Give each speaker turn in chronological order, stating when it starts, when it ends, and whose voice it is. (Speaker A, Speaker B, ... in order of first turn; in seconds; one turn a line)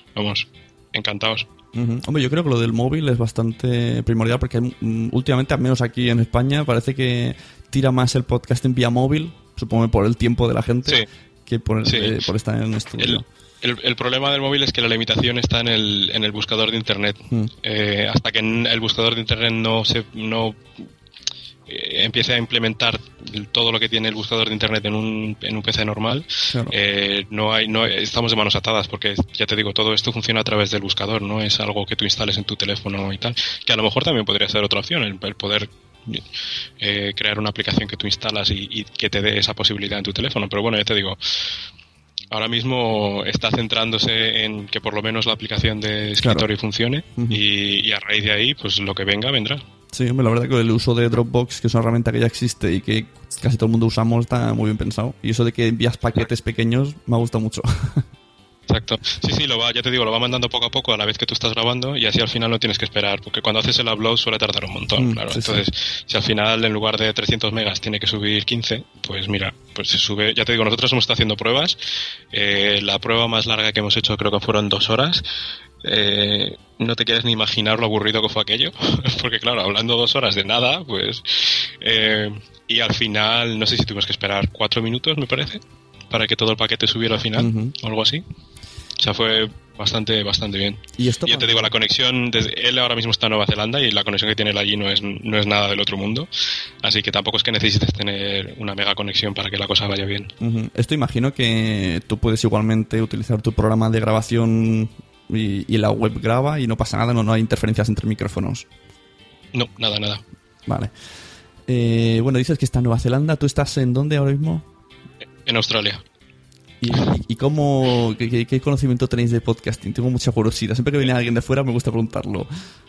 Speaker A: 0.1-1.5
Speaker B: 1.7-13.2
Speaker A: 11.8-12.1
Speaker A: 13.0-20.9
Speaker A: 21.7-36.2
Speaker B: 26.5-26.7
Speaker A: 36.8-41.2
Speaker A: 42.3-49.6
Speaker B: 46.2-46.5
Speaker B: 47.1-47.4
Speaker B: 49.9-58.1
Speaker A: 58.7-71.8
Speaker B: 65.0-65.6
Speaker A: 72.3-75.2
Speaker A: 75.8-88.2
Speaker B: 87.3-87.7
Speaker A: 89.0-96.3
Speaker B: 91.0-91.7
Speaker A: 96.8-100.3
Speaker B: 100.4-108.7
Speaker A: 109.5-110.2
Speaker B: 110.7-110.9
Speaker B: 111.7-114.7
Speaker A: 115.5-116.0
Speaker B: 116.8-122.5